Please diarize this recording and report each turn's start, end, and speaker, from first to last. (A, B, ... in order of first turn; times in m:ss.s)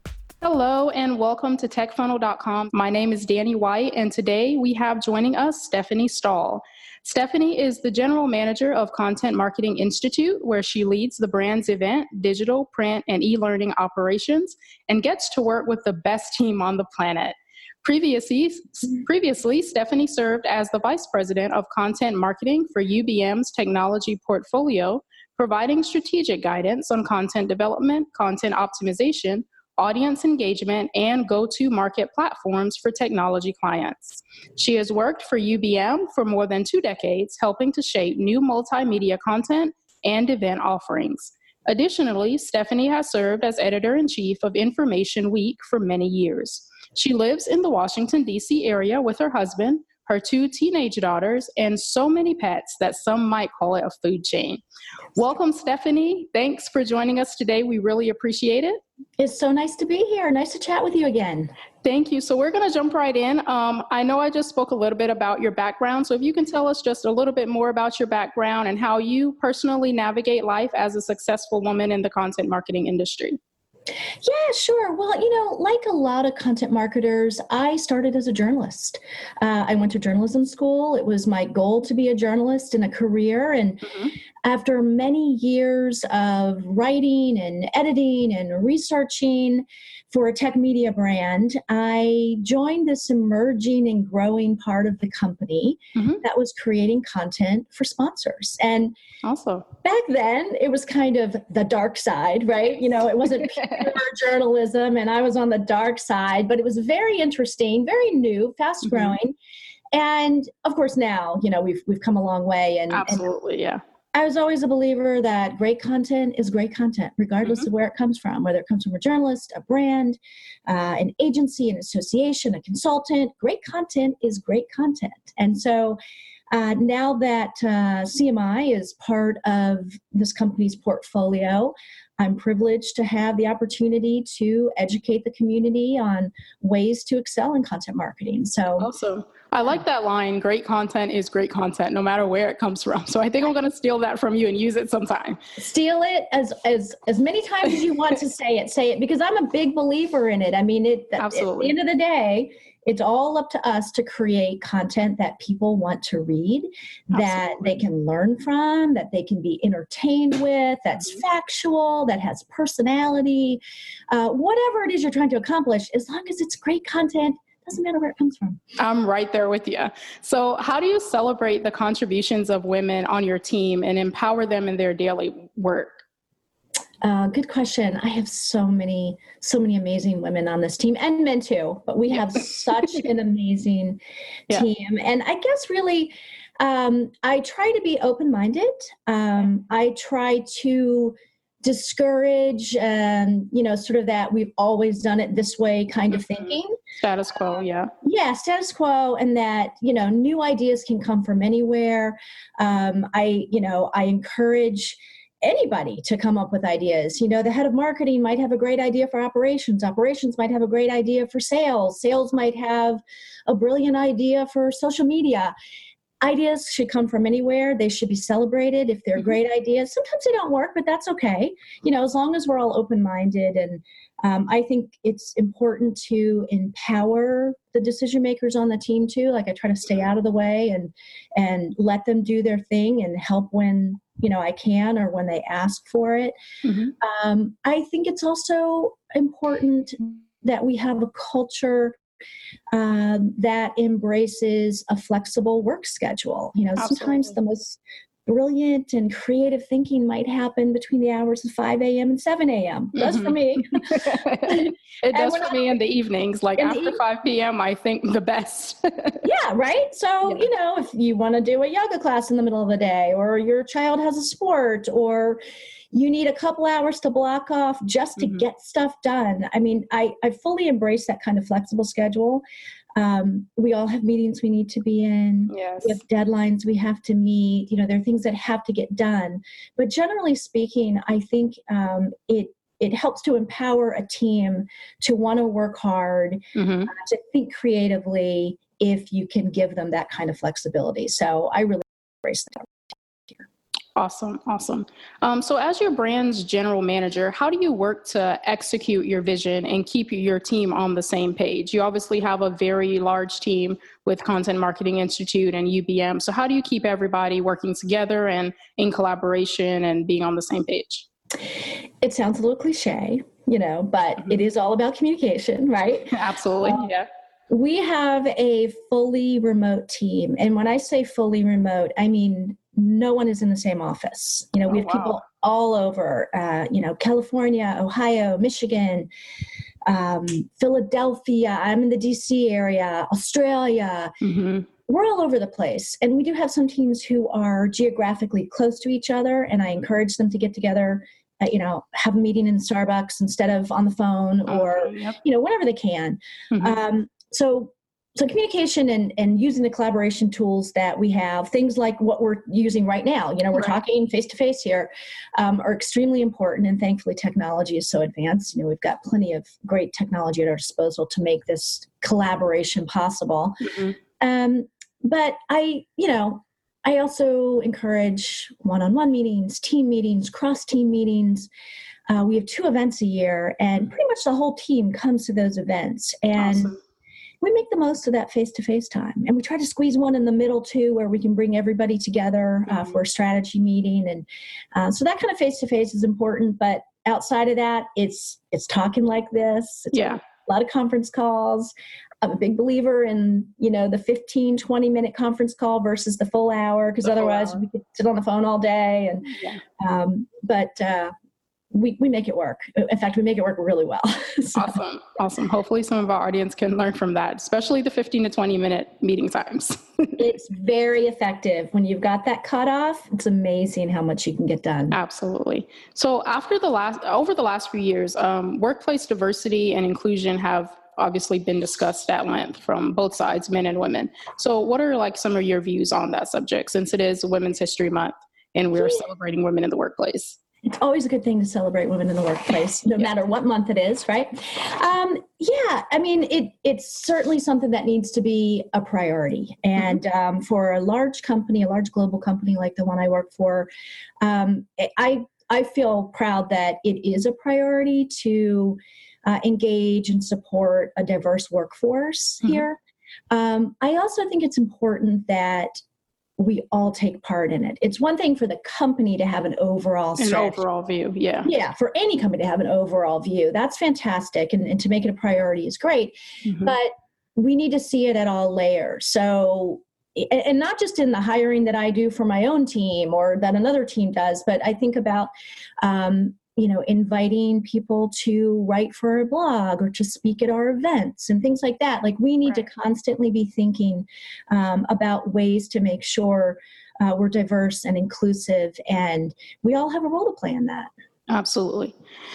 0:00.4-0:54.6 A
0:55.2-0:58.8 A
0:59.2-1:01.5 B
1:01.8-1:13.4 A
1:14.2-1:39.0 B
1:23.9-1:24.1 A
1:36.0-1:36.2 A
1:39.2-1:39.7 A
1:39.8-1:49.4 B
1:48.8-1:49.2 A
1:49.9-1:53.2 B
1:52.9-1:53.8 A
1:54.1-2:06.0 B
2:06.5-2:18.9 B
2:18.8-2:25.4 A
2:25.6-2:48.6 B
2:31.2-2:31.8 A
2:37.1-2:37.8 A
2:48.8-2:56.0 A
2:57.0-3:16.8 B
3:16.1-3:17.9 A
3:18.0-3:35.5 B
3:36.2-3:56.3 B
3:56.6-3:56.9 A
3:57.0-4:02.0 B
4:02.7-4:15.8 B
4:06.8-4:07.4 A
4:13.0-4:19.2 A
4:16.6-4:17.0 B
4:19.2-4:25.4 B
4:25.9-4:32.4 B
4:33.0-4:53.4 B
4:35.5-4:36.0 A
4:46.6-4:46.9 A
4:54.0-5:11.1 A
5:12.0-5:16.9 B
5:16.1-5:17.1 A
5:17.5-5:29.1 B
5:24.7-5:25.2 A
5:29.9-5:34.1 B
5:34.2-5:34.7 A
5:34.9-6:03.7 B
5:44.5-5:45.2 A
5:46.5-5:46.8 A
6:03.6-6:04.0 A
6:04.2-6:11.5 B
6:12.1-6:16.7 B
6:16.4-6:16.8 A
6:17.4-6:41.1 B
6:22.7-6:23.0 A
6:29.9-6:30.2 A
6:37.0-6:37.6 A
6:39.3-6:39.6 A
6:41.7-6:44.8 B
6:44.6-6:50.2 A
6:50.2-6:55.0 B
6:54.9-7:10.4 A
7:08.7-7:09.1 B
7:10.7-7:23.7 B
7:24.2-7:32.8 B
7:33.3-7:35.8 B
7:36.4-7:40.6 B
7:40.2-7:41.5 A
7:41.4-7:55.3 B
7:46.4-7:46.7 A
7:55.8-8:10.9 B
8:11.3-8:12.0 A